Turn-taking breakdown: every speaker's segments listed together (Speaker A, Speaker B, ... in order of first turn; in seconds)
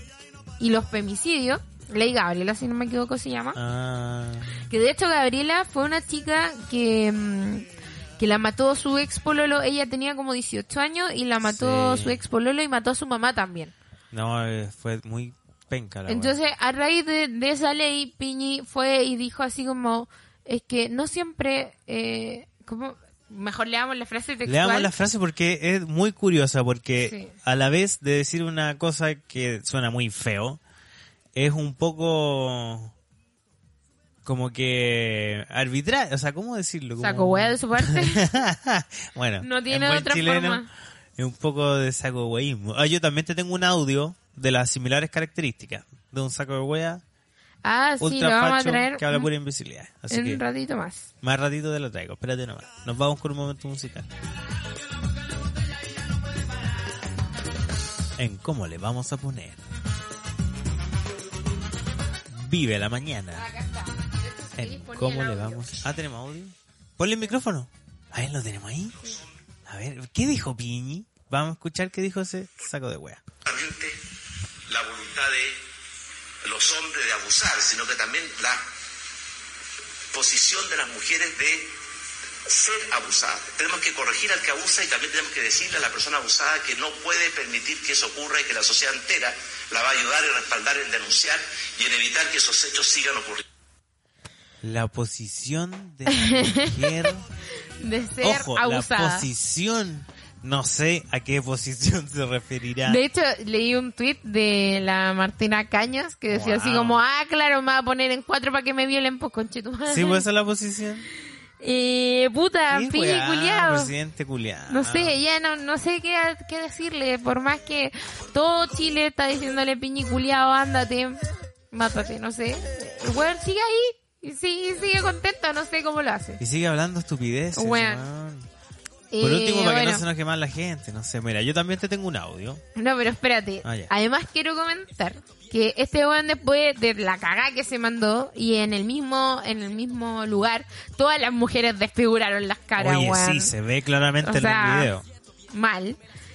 Speaker A: 0.6-3.6, 4.7-7.7, 8.2-13.7, 16.1-24.9, 27.0-27.3, 37.0-38.4, 39.4-40.7, 47.6-49.3, 50.1-51.1, 63.4-65.8, 96.1-97.1, 97.8-99.3, 102.8-110.3, 111.6-113.9, 114.7-121.2, 121.7-126.4, 127.6-128.0, 129.1-130.0, 132.8-143.5, 144.2-144.9, 145.5-146.0
Speaker B: 3.5-4.5, 11.4-12.2, 14.1-16.4, 24.4-30.6, 31.4-32.9, 34.2-47.0, 48.0-50.4, 51.2-54.1, 58.2-59.6, 62.3-63.5, 64.6-69.1, 69.7-73.2, 94.6-97.3, 98.2-103.0, 106.3-107.0, 109.9-111.1, 112.7-115.2, 126.4-128.5, 129.2-132.6, 133.6-133.9, 142.8-145.1
Speaker C: 73.5-74.0, 74.7-75.6, 76.4-78.6, 80.1-81.7, 82.5-93.4